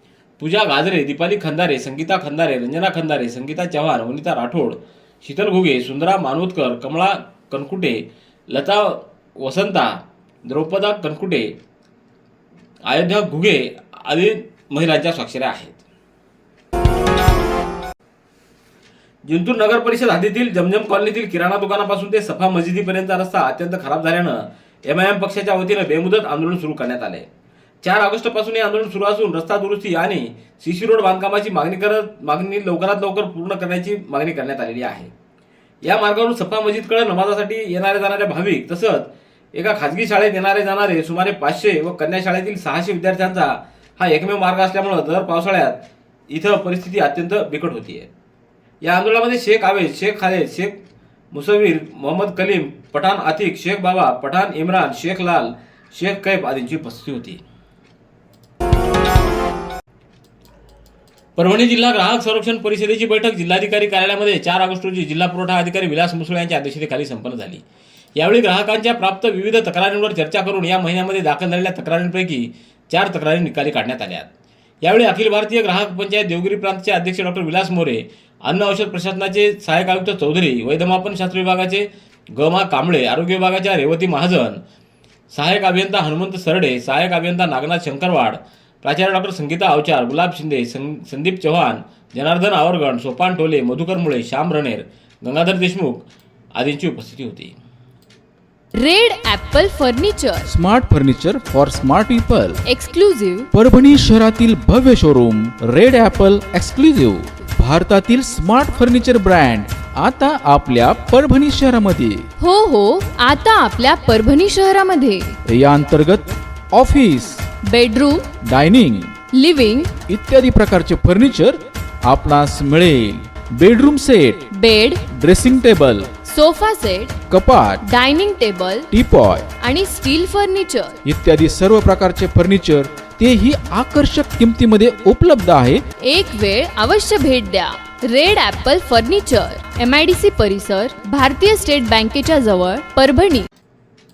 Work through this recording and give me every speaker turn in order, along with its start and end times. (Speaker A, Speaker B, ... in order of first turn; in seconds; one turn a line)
Speaker A: 0.4-11.5
Speaker A: 12.9-15.8
Speaker A: 19.3-27.3
Speaker A: 27.8-35.1
Speaker A: 35.9-48.1
Speaker A: 48.8-50.8
Speaker A: 51.3-57.4
Speaker A: 61.4-67.6
Speaker A: 68.2-74.3
Speaker A: 74.8-84.6
Speaker A: 85.3-96.1
Speaker A: 96.6-97.5
Speaker B: 98.8-100.5
Speaker C: 100.5-102.6
Speaker B: 102.7-103.5
Speaker C: 103.5-112.3
Speaker B: 112.4-115.3
Speaker C: 115.5-117.5
Speaker B: 117.6-118.3
Speaker C: 118.4-119.2
Speaker B: 119.3-119.9
Speaker C: 120.1-124.4
Speaker B: 124.5-125.0
Speaker C: 125.1-126.1
Speaker B: 126.2-127.2
Speaker C: 127.3-127.8
Speaker B: 127.8-128.9
Speaker C: 128.9-129.5
Speaker B: 129.6-131.0
Speaker C: 131.0-135.8
Speaker B: 136.0-143.5